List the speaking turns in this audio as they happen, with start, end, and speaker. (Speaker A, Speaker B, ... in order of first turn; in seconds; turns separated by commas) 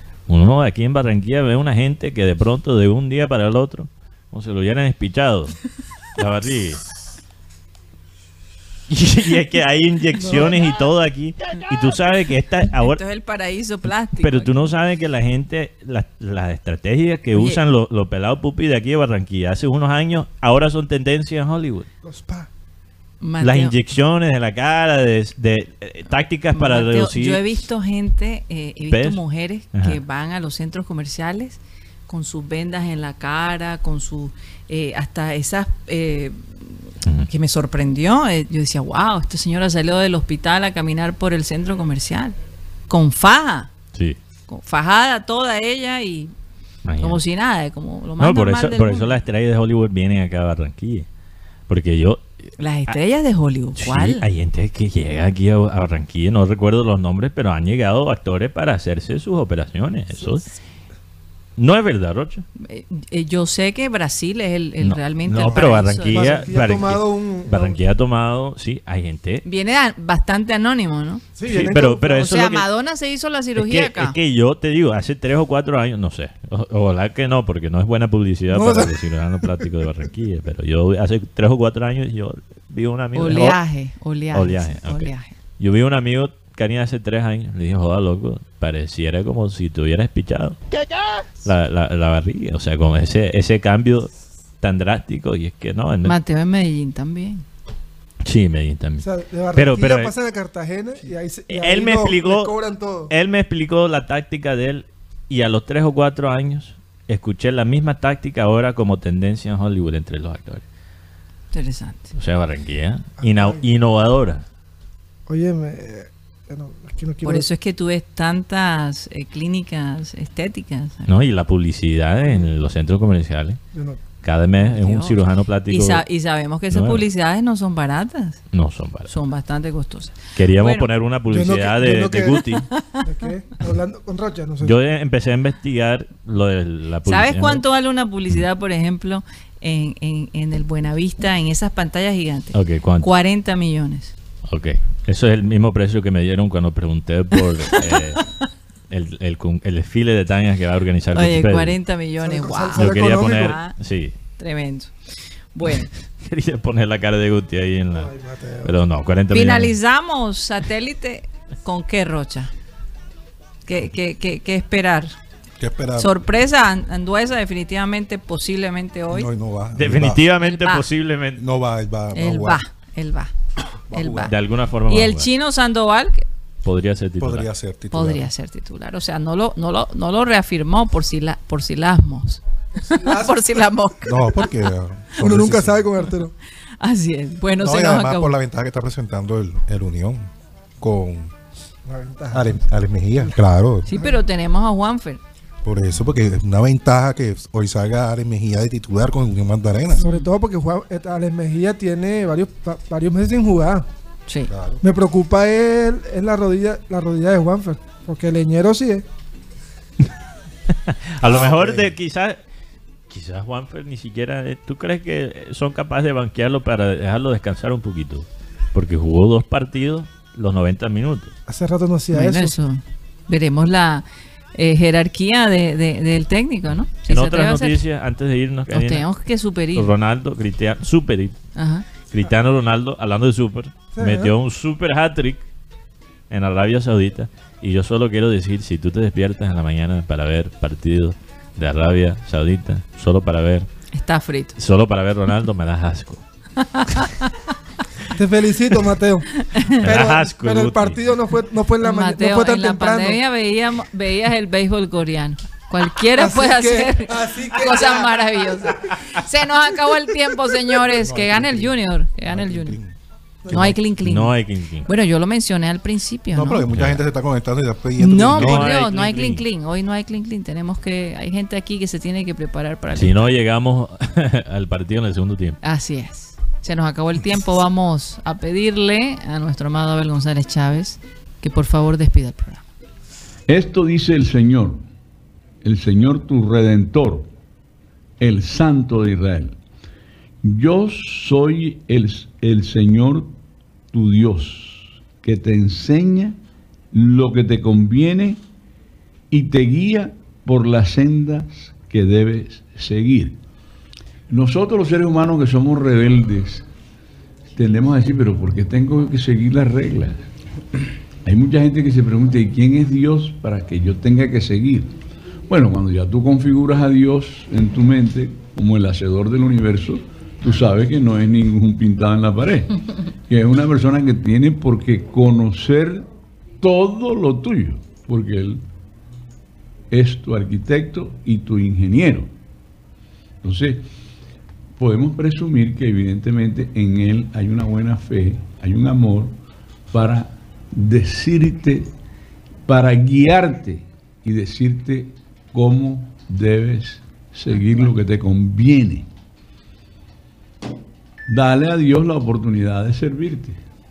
Speaker A: 0.3-5.6, Speaker A: 6.2-6.8, Speaker A: 8.9-13.0, Speaker B: 10.2-10.6, Speaker C: 12.8-14.7, Speaker A: 14.2-21.9, Speaker C: 17.3-17.6, Speaker B: 22.0-22.5, Speaker C: 23.2-23.7, Speaker A: 23.4-27.4, Speaker C: 26.5-42.4, Speaker A: 28.9-29.2, Speaker A: 29.7-30.0, Speaker A: 37.0-37.3, Speaker C: 42.9-43.7, Speaker A: 43.9-44.2, Speaker C: 44.5-46.3, Speaker A: 46.9-47.2, Speaker C: 47.0-49.1, Speaker A: 48.2-51.1, Speaker A: 51.7-52.3, Speaker C: 52.6-54.2, Speaker A: 53.8-60.5, Speaker A: 61.6-62.4, Speaker C: 62.5-66.3, Speaker A: 64.8-69.4, Speaker B: 65.6-67.8, Speaker C: 69.4-74.2, Speaker B: 71.4-72.0, Speaker A: 71.4-72.6, Speaker A: 73.5-83.6, Speaker B: 78.5-78.9, Speaker C: 83.1-85.3, Speaker A: 84.3-90.6, Speaker A: 91.4-94.1, Speaker A: 94.6-96.2, Speaker C: 96.0-97.4, Speaker A: 98.2-100.1, Speaker B: 99.0-103.1, Speaker A: 101.5-102.5, Speaker A: 103.1-110.6, Speaker C: 111.5-112.1, Speaker A: 112.1-114.4, Speaker B: 113.2-113.6, Speaker B: 115.3-117.5, Speaker C: 117.2-121.1, Speaker A: 121.1-123.6, Speaker B: 123.7-124.0, Speaker A: 124.2-126.0, Speaker C: 124.7-128.4, Speaker A: 126.7-127.0, Speaker A: 128.5-129.1, Speaker C: 129.0-130.9, Speaker A: 130.3-132.7, Speaker B: 131.3-134.8, Speaker C: 132.7-133.0, Speaker A: 134.6-137.6, Speaker C: 137.1-144.1, Speaker A: 142.5-143.1, Speaker A: 144.4-148.2, Speaker C: 147.7-148.0, Speaker A: 148.9-151.8, Speaker C: 151.1-153.7, Speaker B: 152.2-153.6, Speaker A: 152.8-154.1, Speaker C: 154.4-154.9, Speaker C: 155.5-155.9, Speaker A: 156.2-159.7, Speaker B: 157.9-158.7, Speaker C: 159.3-162.5, Speaker C: 163.7-165.1, Speaker D: 165.6-166.1, Speaker C: 166.0-169.3, Speaker D: 169.1-170.2, Speaker A: 169.8-171.4, Speaker C: 170.4-170.8, Speaker D: 171.3-172.6, Speaker C: 172.1-173.3, Speaker D: 173.9-174.3, Speaker C: 173.9-174.3, Speaker A: 174.3-175.3, Speaker C: 174.9-176.2, Speaker A: 176.6-177.5, Speaker D: 177.2-178.3, Speaker C: 177.9-184.5, Speaker B: 182.8-183.6, Speaker D: 184.0-185.9, Speaker B: 185.2-186.3, Speaker C: 186.8-188.3, Speaker D: 187.6-190.3, Speaker D: 190.8-191.3, Speaker B: 191.8-192.6, Speaker D: 192.3-193.9, Speaker C: 193.9-195.2, Speaker B: 193.9-194.2, Speaker D: 195.6-200.0, Speaker C: 200.0-200.3, Speaker B: 200.0-203.8, Speaker C: 204.3-204.5, Speaker D: 204.5-204.8, Speaker B: 204.8-209.0, Speaker A: 210.8-212.4, Speaker D: 211.2-211.9, Speaker A: 213.1-221.3, Speaker B: 221.5-222.5, Speaker C: 222.1-227.8, Speaker A: 227.1-229.1, Speaker C: 228.7-229.9, Speaker A: 229.7-231.3, Speaker C: 231.6-231.8, Speaker A: 232.1-235.4, Speaker B: 233.9-234.3, Speaker A: 236.3-243.7, Speaker C: 243.9-244.5, Speaker A: 244.6-246.2, Speaker C: 246.6-247.4, Speaker B: 248.1-249.3, Speaker C: 249.3-249.8, Speaker A: 249.8-251.0, Speaker B: 249.8-253.2, Speaker C: 251.8-262.8, Speaker B: 256.1-258.9, Speaker D: 260.9-262.9, Speaker C: 263.5-266.6, Speaker A: 264.0-264.9, Speaker D: 266.3-268.7, Speaker A: 266.7-267.0, Speaker C: 268.0-273.3, Speaker A: 268.4-269.4, Speaker A: 272.9-275.6, Speaker C: 275.6-282.6, Speaker E: 283.5-284.8, Speaker E: 285.6-287.3, Speaker E: 288.2-289.6, Speaker E: 290.4-293.4, Speaker E: 293.9-296.4, Speaker E: 296.9-298.4, Speaker E: 299.3-303.4, Speaker E: 304.3-306.7, Speaker E: 307.5-310.3, Speaker E: 311.2-326.1, Speaker E: 326.6-328.6, Speaker E: 329.9-332.3, Speaker E: 333.4-333.9, Speaker E: 334.8-339.4, Speaker E: 339.9-341.9, Speaker E: 342.7-349.1, Speaker E: 351.3-353.6